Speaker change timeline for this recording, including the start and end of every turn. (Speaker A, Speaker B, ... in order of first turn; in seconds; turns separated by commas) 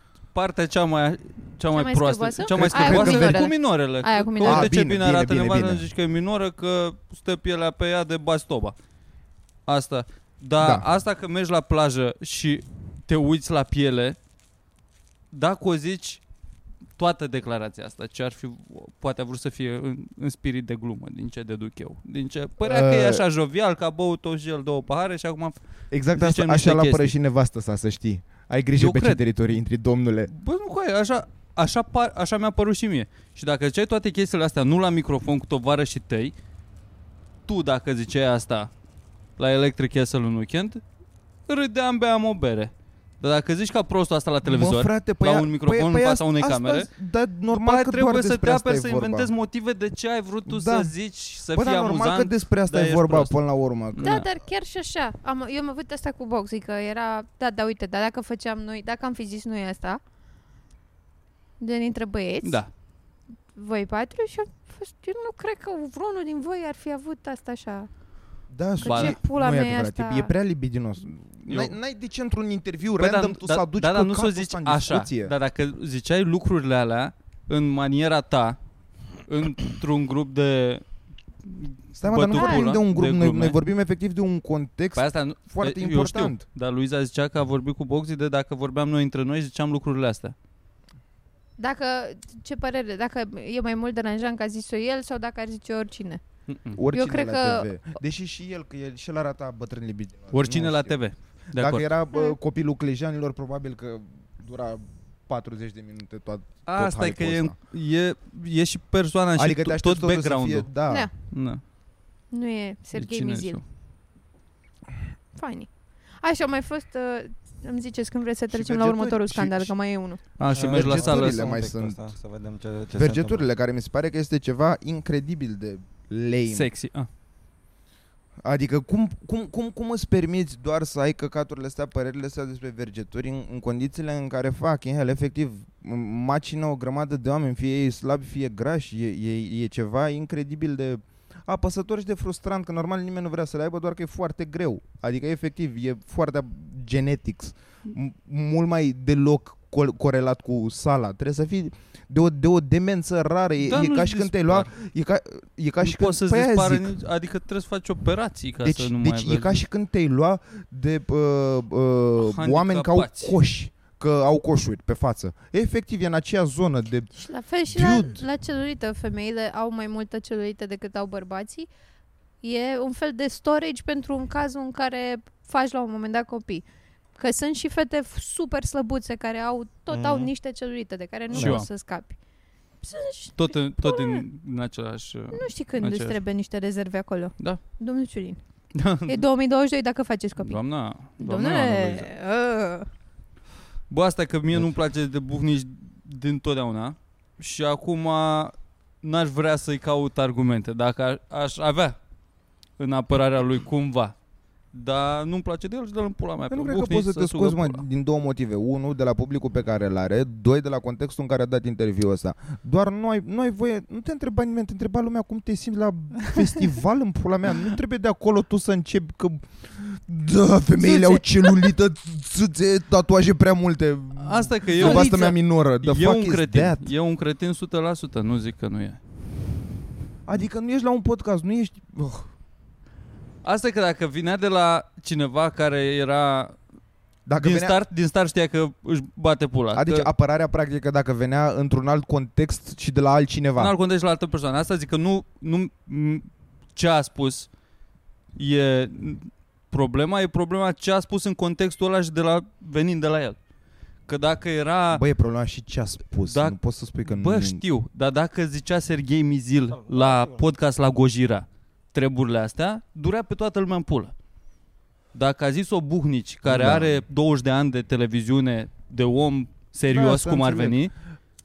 Speaker A: 0.3-8.8, Speaker B: 1.7-4.7, Speaker C: 2.5-3.5, Speaker C: 4.4-5.8, Speaker A: 9.7-14.2, Speaker C: 10.6-10.8, Speaker A: 15.3-16.2, Speaker A: 17.0-25.6, Speaker C: 22.6-23.2, Speaker C: 25.9-30.3, Speaker A: 26.1-27.1, Speaker A: 28.8-29.2, Speaker A: 30.3-36.3, Speaker A: 37.5-38.7, Speaker A: 39.4-40.8, Speaker A: 41.5-46.9, Speaker C: 44.5-49.3, Speaker A: 47.5-53.4, Speaker C: 50.5-50.9, Speaker C: 51.5-54.2, Speaker A: 53.9-54.3, Speaker B: 54.0-60.0, Speaker B: 61.6-62.6, Speaker A: 62.4-62.7, Speaker B: 63.5-67.9, Speaker C: 68.5-75.3, Speaker B: 68.8-70.3, Speaker A: 68.8-69.2, Speaker A: 71.5-71.8, Speaker A: 73.0-78.6, Speaker A: 79.3-80.8, Speaker A: 81.5-83.6, Speaker C: 82.0-86.4, Speaker B: 82.3-82.8, Speaker A: 85.0-90.3, Speaker B: 91.6-96.2, Speaker A: 96.5-96.8, Speaker C: 96.8-101.0, Speaker B: 96.9-97.7, Speaker A: 100.3-101.9, Speaker C: 101.5-107.5, Speaker A: 106.7-111.6, Speaker C: 109.4-111.1, Speaker B: 112.3-113.6, Speaker A: 112.9-113.6, Speaker B: 115.3-115.7, Speaker B: 116.2-120.2, Speaker C: 118.5-119.7, Speaker A: 120.4-121.4, Speaker C: 120.5-122.0, Speaker D: 120.5-123.5, Speaker C: 123.0-126.7, Speaker A: 126.5-127.1, Speaker C: 128.4-156.9, Speaker A: 153.6-154.7, Speaker A: 155.8-159.6, Speaker C: 158.6-167.1, Speaker A: 162.2-163.4, Speaker B: 167.1-171.7, Speaker C: 167.7-168.2, Speaker B: 172.4-176.6, Speaker B: 177.2-182.2, Speaker D: 179.9-180.3, Speaker D: 181.3-181.6, Speaker A: 181.3-181.7, Speaker B: 182.8-184.2, Speaker A: 183.4-186.2, Speaker B: 185.3-188.4, Speaker A: 188.8-189.2, Speaker B: 189.1-190.6, Speaker A: 190.4-192.1, Speaker B: 191.2-192.9, Speaker A: 193.9-202.0, Speaker A: 202.8-204.2, Speaker A: 204.7-207.8, Speaker C: 206.5-226.9, Speaker A: 224.2-229.0, Speaker C: 230.3-232.3, Speaker A: 233.4-236.6, Speaker C: 237.3-237.8, Speaker A: 237.4-240.1, Speaker C: 239.8-243.7, Speaker A: 243.6-247.5, Speaker A: 248.4-253.4, Speaker A: 254.1-255.1, Speaker C: 254.9-257.6, Speaker A: 256.2-264.1, Speaker D: 259.7-260.4, Speaker A: 265.1-270.9, Speaker C: 266.5-267.0, Speaker C: 269.9-270.8